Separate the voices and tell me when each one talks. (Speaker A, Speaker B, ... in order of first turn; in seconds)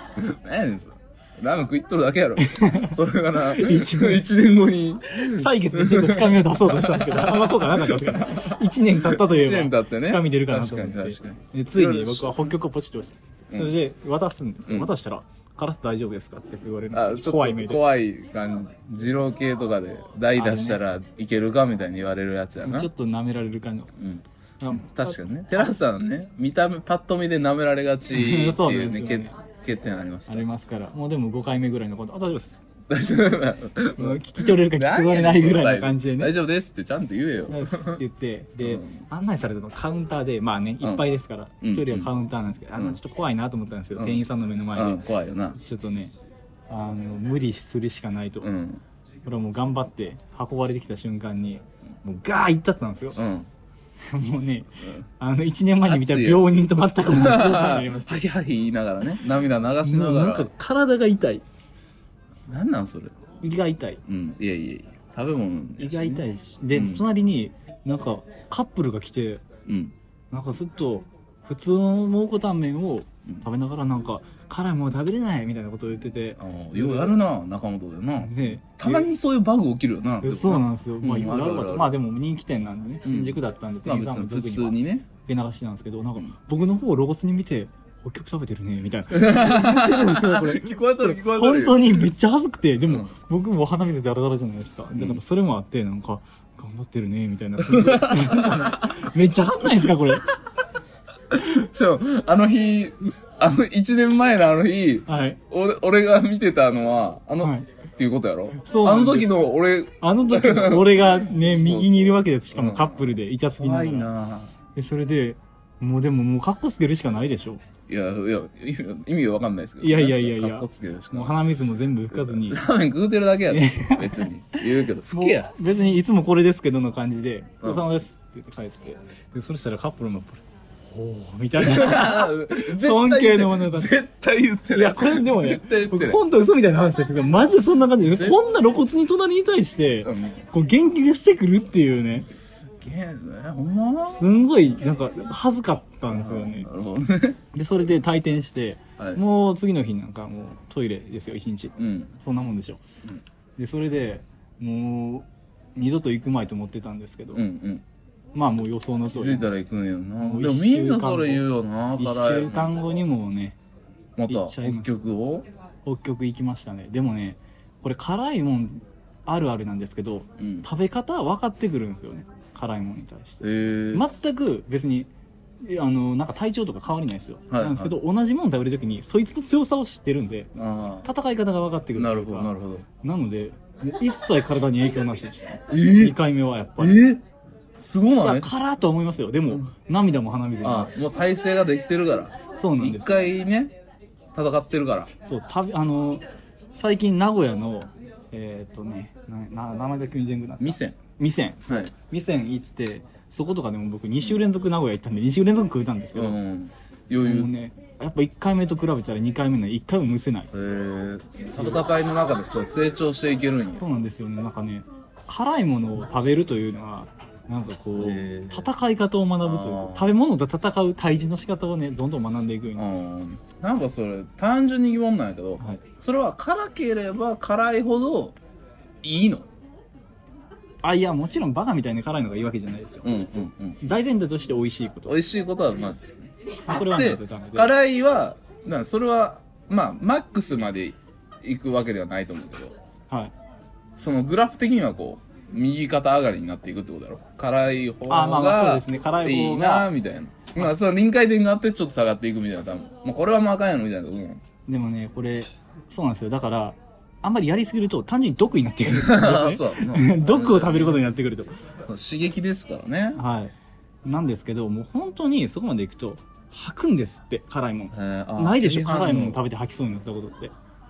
Speaker A: 0.2-12.5, 14.6-14.9, 16.9-22.9, 24.0-30.4, 32.9-38.0, 38.6-39.0, 40.8-41.1, 41.6-42.1, 43.9-45.6, 48.4-48.8, 53.1-53.5, 55.8-56.5, 57.0-60.5, 62.5-63.2, 64.0-67.1, 69.7-69.9, 76.4-81.9, 83.0-85.1, 89.1-92.1, 97.6-99.0, 99.8-100.2, 101.3-114.5, 117.9-121.4, 122.1-125.5, 127.6-127.9, 131.6-136.2, 138.0-138.4, 140.0-140.4, 142.8-144.4, 146.1-147.4, 151.8-152.1, 157.3-157.8, 159.1-163.1, 164.2-165.5, 170.4-170.7, 173.4-174.1, 177.5-178.0, 180.5-181.1, 181.9-182.8, 185.7-186.2, 186.8-187.2, 187.8-188.5, 190.6-193.7, 194.3-195.1, 200.6-201.0, 206.1-207.5, 210.5-213.8, 218.0-218.7, 219.4-220.1, 222.8-228.3, 229.0-229.5, 233.0-233.8, 235.1-236.2, 236.7-242.8, 244.0-254.4, 258.9-261.1, 261.9-263.2, 267.9-269.4
Speaker B: 2.4-3.0, 3.5-4.2, 5.2-17.8, 20.3-20.8, 22.6-23.9, 24.6-25.2, 28.1-29.4, 30.3-32.6, 34.0-36.3, 37.5-45.0, 45.6-46.1, 46.7-48.5, 49.2-53.2, 54.0-58.2, 59.8-61.4, 63.4-64.0, 65.8-69.4, 70.3-77.2, 78.2-79.1, 80.2-100.2, 105.0-105.4, 107.4-107.7, 108.6-109.3, 110.0-114.1, 114.7-117.6, 119.8-122.6, 123.5-134.0, 134.7-142.3, 144.1-146.7, 147.5-152.8, 153.6-157.4, 158.3-159.5, 160.2-163.6, 164.3-165.0, 165.8-175.1, 175.6-180.5, 181.0-187.0, 188.2-191.0, 192.5-193.2, 195.2-196.2, 196.7-206.4, 207.2-210.5, 213.8-222.8, 225.6-225.8, 230.8-235.2, 236.7-237.7, 243.1-243.3, 248.1-249.9, 254.7-261.5, 263.1-270.5